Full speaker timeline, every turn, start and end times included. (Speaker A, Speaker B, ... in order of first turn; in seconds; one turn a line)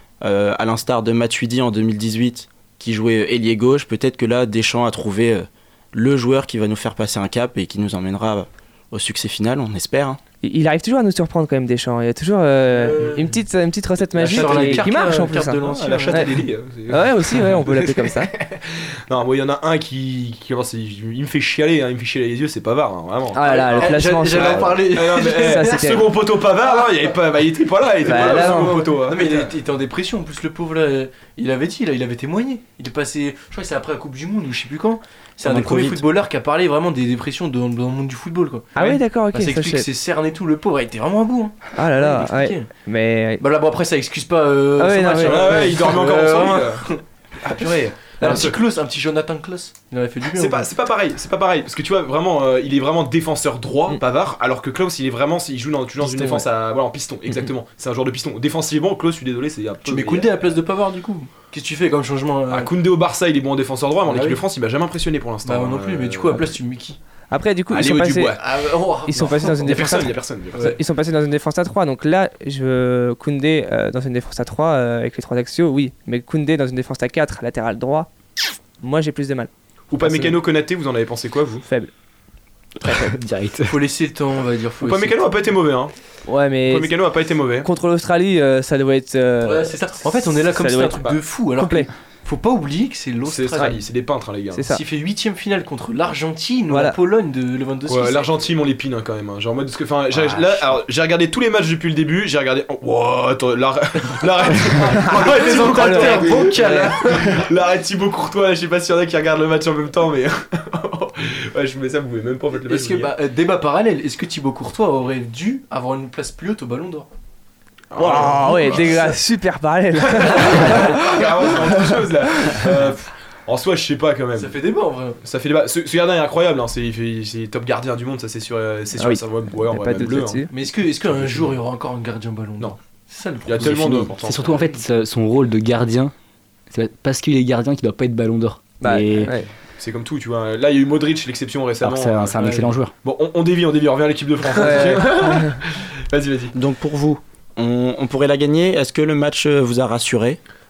Speaker A: 0.2-10.2
Speaker B: 10.4-16.3
Speaker C: 12.7-13.3
Speaker D: 14.2-15.1
Speaker C: 14.2-16.4
Speaker D: 15.6-29.5
Speaker B: 16.9-18.3
Speaker B: 23.3-26.1
Speaker C: 23.4-25.9
Speaker B: 28.0-28.9
Speaker C: 28.0-42.7
Speaker A: 35.4-36.0
Speaker B: 38.8-39.9
Speaker B: 41.8-43.4
Speaker C: 43.4-50.7
Speaker B: 44.8-45.7
Speaker D: 45.2-46.9
Speaker D: 47.4-48.6
Speaker D: 50.4-60.3
Speaker B: 56.0-56.5
Speaker C: 59.9-62.7
Speaker D: 62.5-66.5
Speaker C: 64.1-64.4
Speaker C: 65.5-67.0
Speaker B: 67.3-68.4
Speaker D: 67.7-68.5
Speaker C: 68.4-70.0
Speaker B: 69.1-78.1
Speaker D: 69.6-70.8
Speaker C: 70.5-70.8
Speaker B: 78.8-80.4
Speaker D: 79.9-81.7
Speaker B: 81.7-81.9
Speaker B: 82.8-83.2
Speaker E: 83.1-83.7
Speaker C: 83.7-85.3
Speaker D: 84.8-85.9
Speaker B: 86.3-87.0
Speaker D: 86.7-87.7
Speaker B: 87.6-91.9
Speaker C: 89.4-93.8
Speaker D: 93.3-94.7
Speaker B: 94.5-94.8
Speaker C: 94.7-98.5
Speaker B: 96.7-97.0
Speaker D: 97.9-113.1
Speaker C: 104.6-107.4
Speaker B: 105.5-107.0
Speaker C: 112.7-117.1
Speaker D: 117.9-119.2
Speaker B: 118.0-121.2
Speaker D: 120.0-124.5
Speaker C: 120.6-120.9
Speaker C: 124.4-125.2
Speaker D: 125.2-130.5
Speaker B: 129.0-130.5
Speaker C: 130.5-134.1
Speaker D: 131.0-131.6
Speaker D: 133.4-134.7
Speaker E: 133.6-136.1
Speaker E: 136.7-139.3
Speaker B: 138.8-139.5
Speaker D: 139.8-142.5
Speaker E: 141.8-142.9
Speaker C: 142.4-142.7
Speaker D: 143.0-146.6
Speaker B: 144.6-145.6
Speaker A: 146.5-150.4